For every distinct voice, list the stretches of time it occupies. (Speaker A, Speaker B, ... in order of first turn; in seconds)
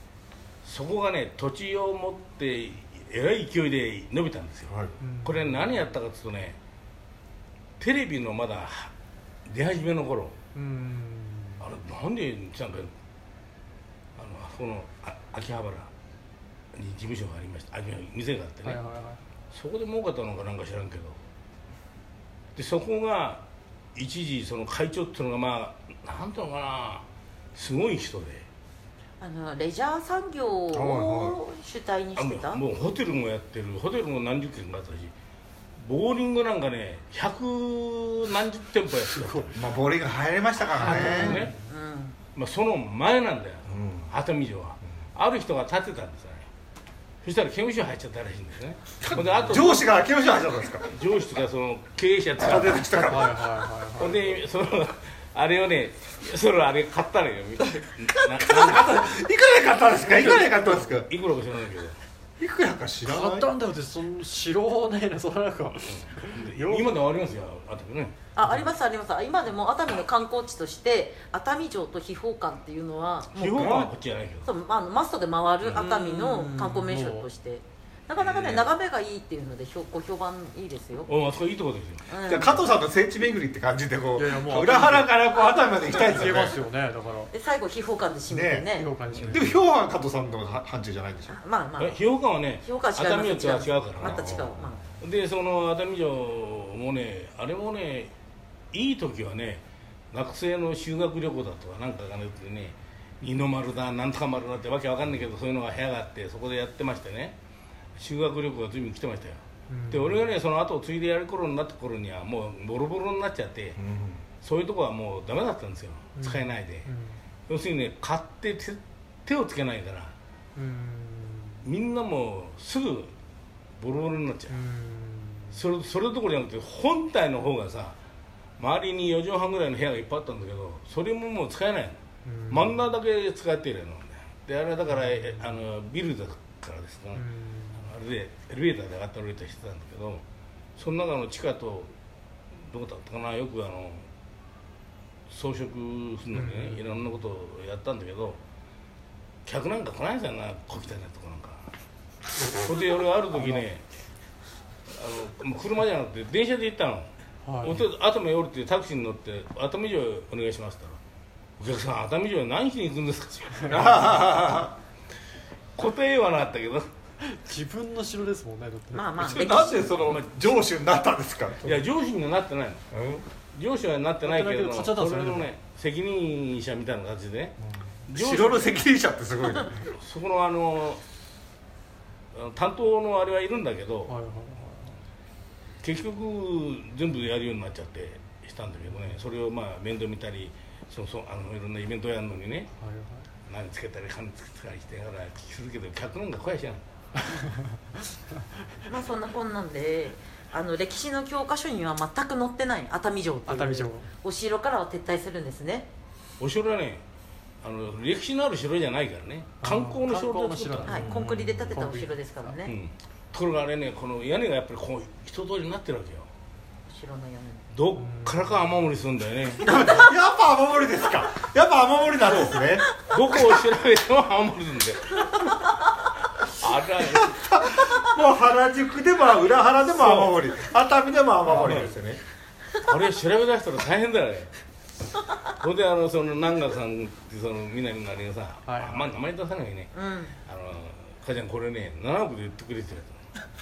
Speaker A: 0.6-6.6, 7.8-8.9, 9.4-10.3, 11.6-12.9, 14.2-15.9, 16.7-18.8, 19.5-21.2, 22.5-23.4, 23.9-28.4, 32.1-35.1, 35.8-39.6, 40.8-41.5, 42.3-46.5, 47.2-49.9, 50.9-52.9, 54.0-59.2, 60.2-62.0, 65.9-68.2, 73.3-74.5, 78.2-78.7, 81.0-82.1, 91.8-94.5, 95.0-98.1, 98.7-107.3, 108.0-113.8, 114.4-116.9, 117.5-120.1, 121.6-123.1, 123.8-124.5, 125.5-128.0, 128.6-137.2, 137.8-140.2, 140.8-141.9, 142.7-144.1, 145.3-148.4, 149.4-151.7, 152.5-153.8, 154.9-157.1, 157.6-161.0, 161.6-164.2, 165.8-166.9, 170.0-170.6, 171.6-172.8, 173.5-178.8, 179.9-181.0, 182.3-184.1, 185.8-192.7, 193.5-196.8, 206.4-207.0, 207.6-211.1, 212.6-216.3, 217.7-220.0, 222.3-225.7, 226.4-227.9, 229.9-230.4, 231.5-231.9, 232.8-234.5, 235.6-239.9, 240.4-243.2
Speaker B: 4.7-4.9, 30.7-31.4, 39.5-41.5, 43.6-44.1, 49.1-50.9, 52.4-53.4, 57.8-61.1, 62.4-63.5, 73.5-73.9, 82.2-86.6, 88.3-91.4, 94.0-94.8, 113.8-114.2, 163.7-164.8, 169.2-171.9, 172.9-173.2, 178.1-179.8, 210.9-211.8, 219.6-222.9, 227.2-232.2
Speaker C: 5.0-5.8, 10.5-11.6, 18.6-19.2, 39.1-39.5, 40.8-41.5, 53.0-54.3, 63.0-66.9, 68.4-68.7, 75.7-77.3, 84.2-85.3, 85.9-87.3, 88.7-89.6, 109.7-110.3, 116.2-117.2, 120.5-121.6, 124.5-125.6, 132.2-132.8, 134.9-135.6, 137.1-137.9, 146.3-147.2, 157.4-157.8, 167.2-169.4, 174.2-175.5, 184.1-185.0, 192.8-193.3, 197.3-197.7, 203.4-204.1, 209.6-211.1, 211.7-212.5, 217.9-218.8, 238.7-239.1
Speaker D: 29.2-32.6, 40.8-42.2, 68.3-73.9, 74.4-81.1, 82.1-82.6, 87.3-88.9, 91.3-92.0, 92.6-94.8, 168.9-170.0, 198.9-205.9, 210.9-212.7, 216.9-217.7, 239.9-240.3